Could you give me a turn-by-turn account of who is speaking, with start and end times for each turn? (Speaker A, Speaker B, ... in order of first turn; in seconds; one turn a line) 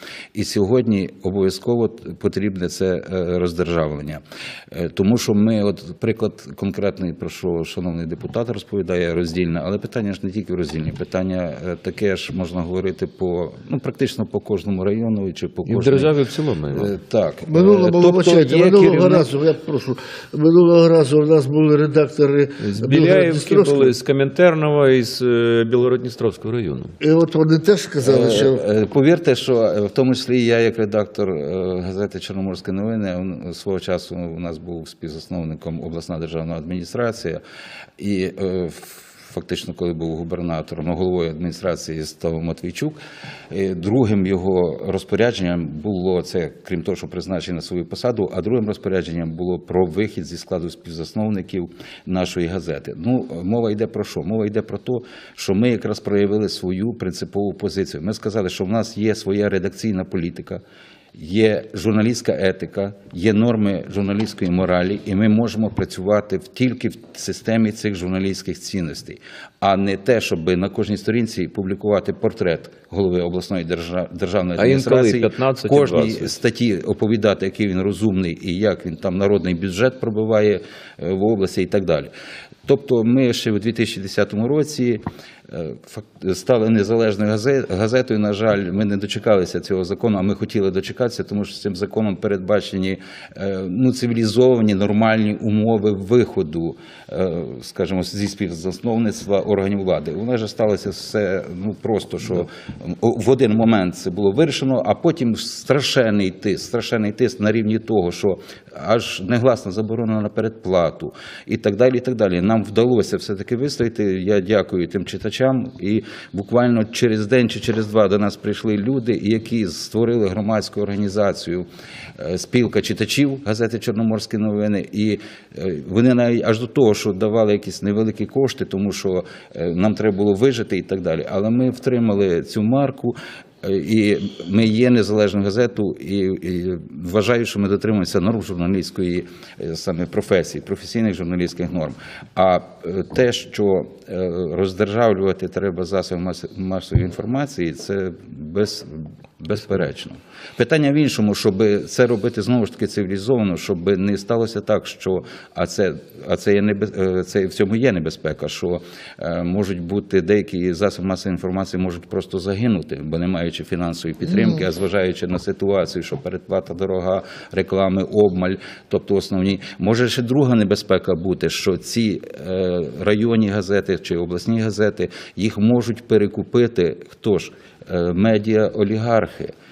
Speaker A: 0.3-16.1
Speaker B: 15.7-16.9
Speaker A: 16.7-19.3
Speaker C: 17.5-23.9
Speaker B: 22.6-26.9
Speaker C: 27.0-28.6
Speaker A: 28.0-37.4
Speaker A: 38.0-43.0
Speaker A: 43.5-60.6
Speaker A: 61.2-82.1
Speaker B: 74.6-76.3
Speaker A: 82.7-121.7
Speaker A: 122.2-179.5
Speaker C: 164.2-164.7